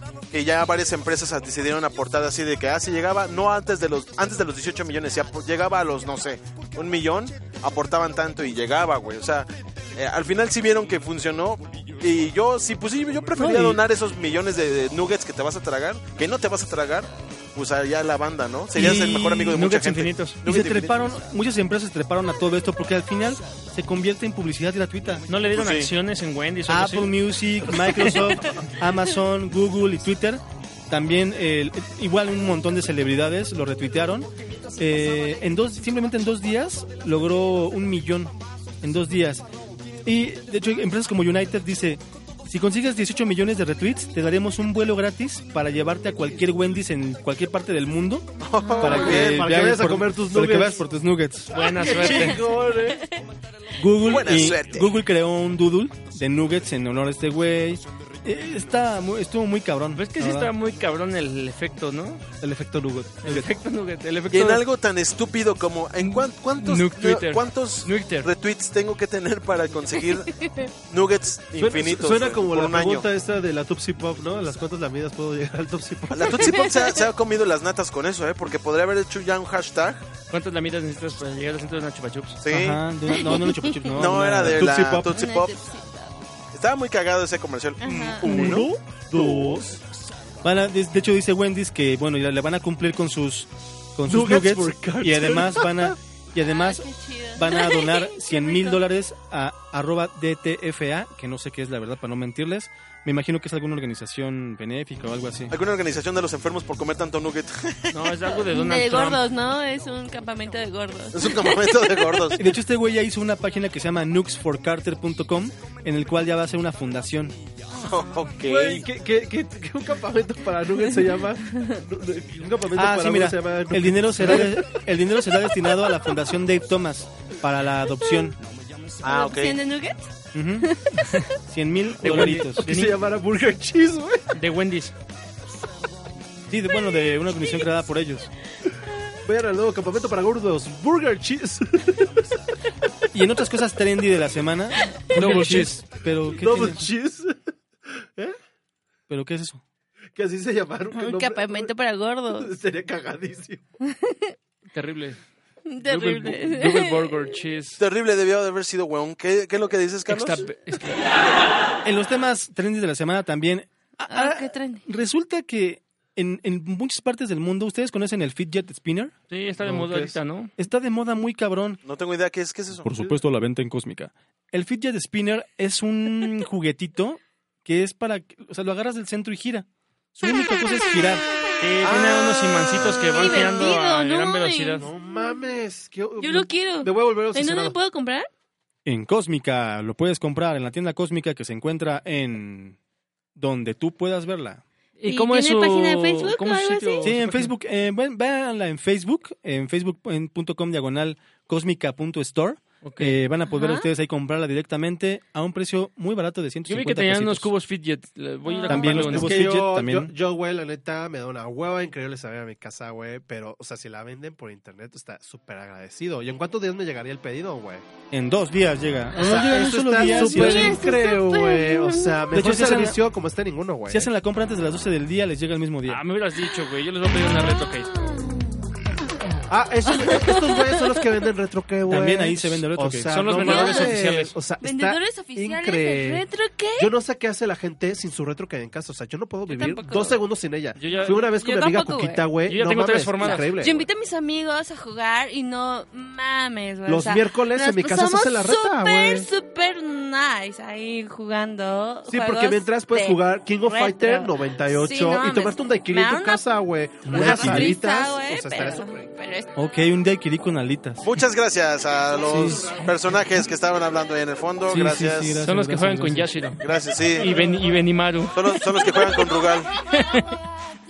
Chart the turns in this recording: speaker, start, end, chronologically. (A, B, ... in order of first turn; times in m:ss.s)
0:00.3-0:21.0 A
0:13.4-0:13.8 B
0:18.7-0:19.7 B
0:19.5-0:20.4 C
0:20.4-0:25.2 B
0:25.3-0:27.1 C
0:25.5-0:25.9 A
0:26.7-0:39.4 B
0:40.0-0:48.3 B
0:48.4-0:49.5 A
0:48.8-0:50.8 D
0:48.8-0:51.7 B
0:51.5-0:52.4 C
0:51.6-0:53.0 D
0:52.1-0:53.1 E
0:53.8-1:00.5 B
0:54.0-0:54.9 A
0:59.9-1:02.3 C
1:02.4-1:03.5 D
1:03.2-1:04.6 C
1:04.3-1:10.3 A
1:06.0-1:08.3 C
1:10.4-1:10.7 E
1:10.9-1:13.1 A
1:11.6-1:16.7 D
1:16.1-1:20.0 A
1:16.5-1:17.0 E
1:20.3-1:22.4 C
1:22.4-1:22.8 A
1:22.4-1:24.8 B
1:23.1-1:23.9 E
1:23.9-1:25.6 A
1:24.5-1:25.1 D
1:25.1-1:26.1 E
1:26.5-1:28.6 A
1:27.8-1:28.5 E
1:28.2-1:29.7 B
1:28.3-1:28.6 C
1:29.1-1:29.8 D
1:30.4-1:45.6 B
1:34.1-1:36.0 D
1:36.4-1:38.9 E
1:45.5-1:48.0 A
1:47.9-1:49.2 C
1:48.5-1:52.3 E
1:51.1-1:52.4 A
1:52.4-1:57.4 B
1:57.8-1:58.9 A
1:58.4-2:04.7 D
2:01.5-2:01.8 E
2:02.7-2:08.4 B
2:09.0-2:09.6 A
2:09.0-2:10.1 E
2:10.3-2:10.7 B
2:10.6-2:11.1 E
2:11.5-2:12.8 B
2:12.0-2:13.0 C
2:12.0-2:14.3 D
2:14.3-2:14.9 C
2:16.5-2:18.3 B
2:19.2-2:22.2 D
2:23.1-2:26.9 B
2:24.8-2:25.1 E
2:25.1-2:25.8 C
2:25.3-2:25.7 D
2:26.4-2:27.4 D
2:28.0-2:28.4 D
2:29.1-2:29.6 B
2:30.1-2:31.7 D
2:30.9-2:32.5 E
2:32.3-2:33.6 D
2:33.8-2:34.3 E
2:34.7-2:35.2 C
2:35.7-2:37.1 E
2:35.8-2:37.8 C
2:37.8-2:40.5 A
2:40.1-2:41.1 C
2:41.8-2:49.1 B
2:44.1-2:44.8 E
2:49.3-2:50.5 C
2:49.6-2:50.2 D
2:50.6-2:51.8 B
2:51.8-2:52.9 A
2:52.8-3:01.2 B
3:01.6-3:04.9 C
3:01.8-3:02.2 A
3:03.0-3:04.9 E
3:04.8-3:07.8 D
3:06.2-3:08.3 E
3:08.9-3:12.8 B
3:13.4-3:14.6 B
3:15.0-3:17.5 C
3:15.0-3:17.1 E
3:17.0-3:27.5 B
3:22.8-3:23.2 C
3:23.5-3:23.9 E
3:26.7-3:29.4 C
3:28.4-3:29.0 E
3:28.7-3:30.1 B
3:28.8-3:37.8 D
3:38.1-3:40.8 B
3:39.2-3:44.1 D
3:40.0-3:42.3 E
3:42.3-3:43.0 B
3:43.9-3:46.0 B
3:45.9-3:47.9 C
3:49.5-3:56.2 D
3:49.9-3:51.0 E
3:51.9-3:53.4 B
3:53.1-3:54.4 C
3:53.4-3:54.0 E
3:54.6-3:56.9 E
3:56.8-4:03.9 D
3:59.5-4:00.2 E
4:00.8-4:01.4 C
4:01.2-4:02.4 E
4:02.4-4:03.5 C
4:03.2-4:16.4 E
4:06.9-4:09.3 D
4:12.1-4:19.0 D
4:17.1-4:17.8 B
4:17.1-4:19.5 E
4:19.6-4:21.1 B
4:21.0-4:25.4 A
4:22.2-4:22.8 B
4:24.7-4:26.3 B
4:25.4-4:26.6 C
4:26.6-4:27.3 A
4:27.2-4:28.9 C
4:27.3-4:27.6 D
4:28.3-4:29.7 A
4:29.8-4:30.3 C